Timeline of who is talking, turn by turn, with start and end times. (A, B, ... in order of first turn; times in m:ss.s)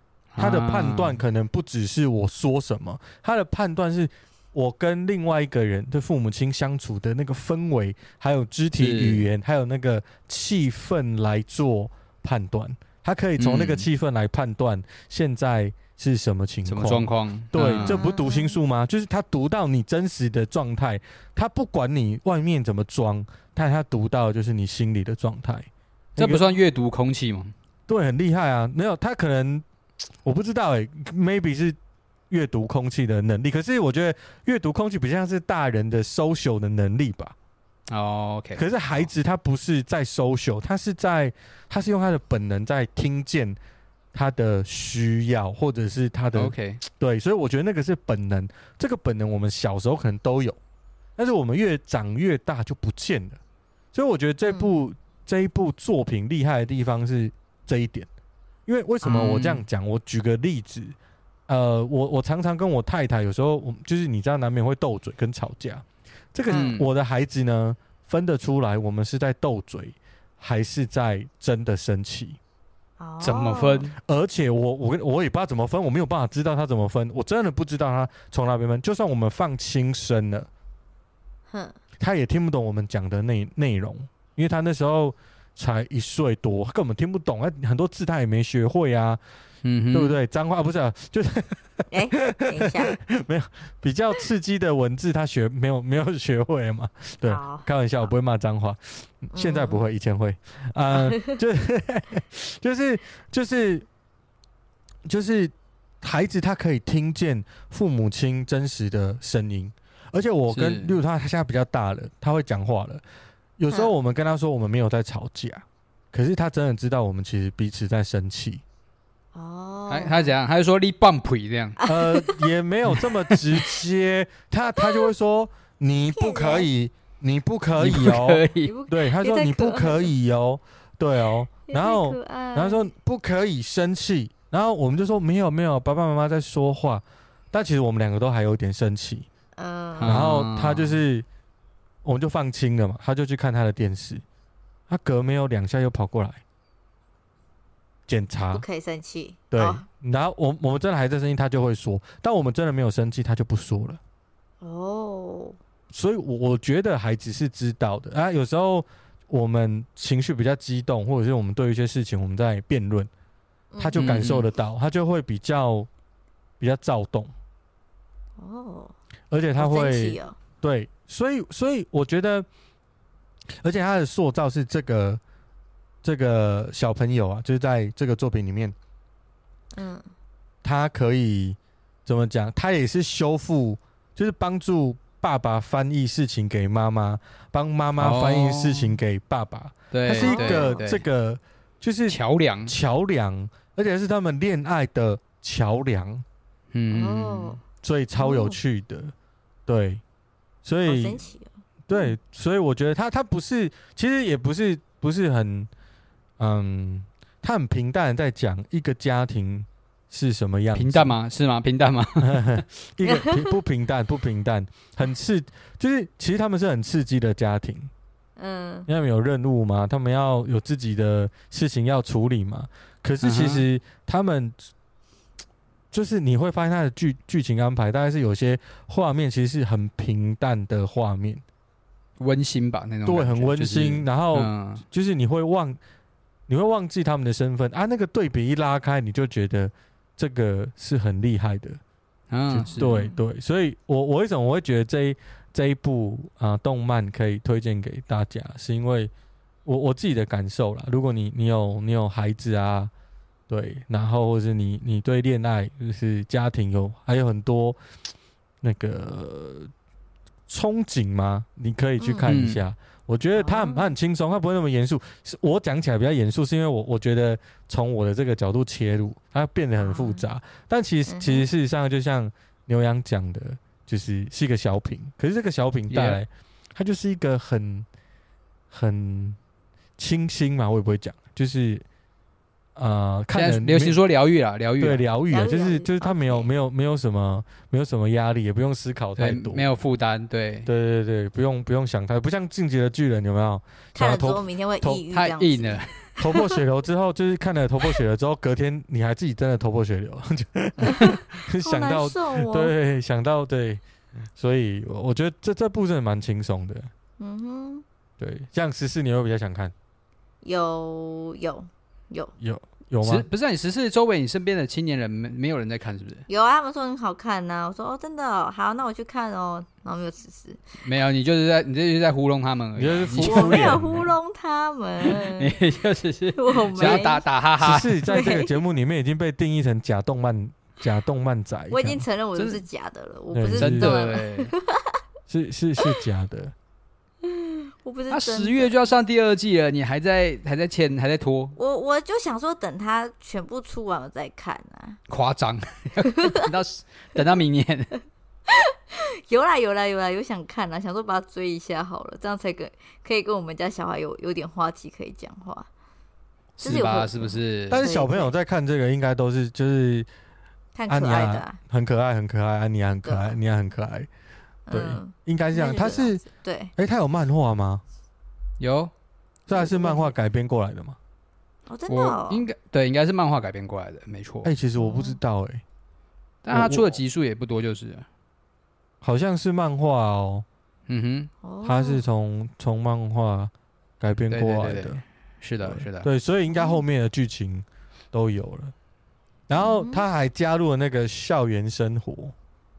0:00.3-0:01.2 A
0:00.4-0:26.5 B
0:08.8-0:09.3 A
0:13.4-0:13.9 A
0:16.6-0:18.0 A
0:17.8-0:18.6 C
0:26.2-0:27.5 A
0:27.9-0:29.6 B
0:30.2-0:31.8 B
0:32.3-0:37.3 B
0:37.9-0:39.0 A
0:38.6-0:43.6 B
0:44.1-0:50.6 B
0:46.3-0:46.8 A
0:51.2-0:53.4 B
0:53.9-0:58.1 B
0:54.4-0:54.7 C
0:58.6-1:01.0 B
0:59.0-0:59.3 C
0:59.0-0:59.6 A
1:01.5-1:12.4 B
1:06.5-1:06.8 C
1:06.5-1:06.9 A
1:13.0-1:13.9 C
1:13.2-1:13.9 A
1:14.0-1:20.5 B
1:21.5-1:21.8 C
1:22.0-1:29.2 B
1:29.6-1:30.2 A
1:29.9-1:43.9 B
1:31.9-1:33.0 C
1:37.2-1:37.7 C
1:39.3-1:39.8 C
1:40.9-1:41.4 C
1:45.1-1:53.0 B
1:50.5-1:51.0 A
1:53.6-1:58.6 B
1:59.3-2:00.3 C
1:59.9-2:01.8 A
2:01.8-2:02.4 C
2:01.8-2:19.3 B
2:02.9-2:03.4 A
2:06.1-2:06.7 C
2:07.8-2:08.7 A
2:08.6-2:10.1 C
2:11.7-2:12.9 C
2:19.6-2:20.3 C
2:20.0-2:21.0 A
2:20.0-2:21.2 B
2:22.0-2:24.2 B
2:24.9-2:26.4 B
2:28.1-2:28.6 B
2:28.5-2:29.8 C
2:29.5-2:34.0 B
2:34.6-2:35.6 C
2:35.9-2:43.1 B
2:43.7-2:44.0 C
2:43.8-2:45.9 B
2:44.0-2:44.5 A
2:46.6-2:47.3 B
2:48.4-2:48.9 C
2:49.3-2:52.5 B
2:49.6-2:50.4 C
2:53.6-2:55.2 B
2:56.0-2:58.7 B
2:59.7-3:00.1 C
3:00.6-3:16.2 B
3:08.0-3:08.9 A
3:09.9-3:11.0 A
3:10.1-3:10.9 C
3:12.1-3:12.7 A
3:16.7-3:17.6 A
3:16.9-3:17.6 C
3:17.8-3:19.1 B
3:18.2-3:18.6 C
3:19.6-3:20.0 B
3:20.6-3:21.2 B
3:20.8-3:22.2 C
3:21.9-3:25.7 B
3:26.4-3:31.2 B
3:30.7-3:32.5 A
3:32.2-3:37.9 B
3:33.0-3:33.5 C
3:38.4-3:38.9 C
3:38.9-3:44.6 B
3:43.2-3:43.6 A
3:45.9-3:51.4 B
3:52.2-3:54.8 A
3:53.0-3:55.8 B
3:56.5-4:01.8 B
4:02.3-4:03.0 A
4:02.5-4:09.1 B
4:02.7-4:03.2 C
4:09.6-4:12.9 B
4:13.5-4:17.8 B
4:18.6-4:19.7 B
4:20.5-4:37.9 B
4:22.0-4:22.3 C
4:22.2-4:22.6 A
4:23.4-4:23.9 C
4:29.8-4:30.2 C
4:31.1-4:31.5 C
4:35.9-4:36.2 A
4:38.7-4:39.4 B
4:40.0-4:41.8 B
4:42.8-4:44.0 B
4:43.3-4:45.0 A
4:44.8-4:49.6 B
4:45.3-4:46.5 C
4:49.2-4:50.7 A
4:50.6-4:55.0 B
4:53.9-4:56.6 C
4:55.1-4:56.0 A
4:56.2-5:03.8 B
5:00.8-5:02.7 C
5:04.4-5:06.9 B
5:07.2-5:07.8 C
5:08.2-5:09.7 B
5:10.4-5:12.3 C
5:12.4-5:13.2 B
5:13.0-5:16.2 A
5:16.3-5:20.6 C
5:20.8-5:23.9 A
5:22.8-5:24.1 B
5:23.2-5:25.5 C
5:25.0-5:28.1 A
5:26.4-5:27.2 C
5:26.8-5:27.0 B
5:27.6-5:32.0 B
5:28.1-5:28.5 C
5:31.7-5:35.0 C
5:32.4-5:32.6 A
5:33.3-5:33.9 B
5:33.6-5:34.5 A
5:35.3-5:36.5 B
5:37.2-5:38.7 C
5:38.1-5:41.6 A
5:41.6-5:45.0 C
5:45.1-5:47.9 A
5:46.0-5:46.4 C
5:48.5-5:55.7 C
5:56.6-5:57.8 A
5:56.6-5:58.3 C
5:57.7-6:00.1 B
6:00.7-6:01.6 C
6:00.9-6:04.1 B
6:03.0-6:03.4 C
6:04.7-6:06.7 C
6:04.7-6:06.2 B
6:06.8-6:07.8 B
6:08.6-6:08.9 A
6:09.5-6:11.0 B
6:09.5-6:10.1 C
6:11.7-6:12.4 C
6:11.9-6:14.5 A
6:14.4-6:15.6 B
6:14.8-6:15.2 C
6:16.4-6:18.0 A
6:16.5-6:17.0 B
6:19.0-6:20.4 B
6:20.9-6:21.3 A
6:21.4-6:22.0 C
6:21.6-6:25.0 B
6:24.3-6:26.1 A
6:25.6-6:28.7 B
6:26.5-6:26.8 C
6:29.5-6:32.3 B
6:29.5-6:30.0 C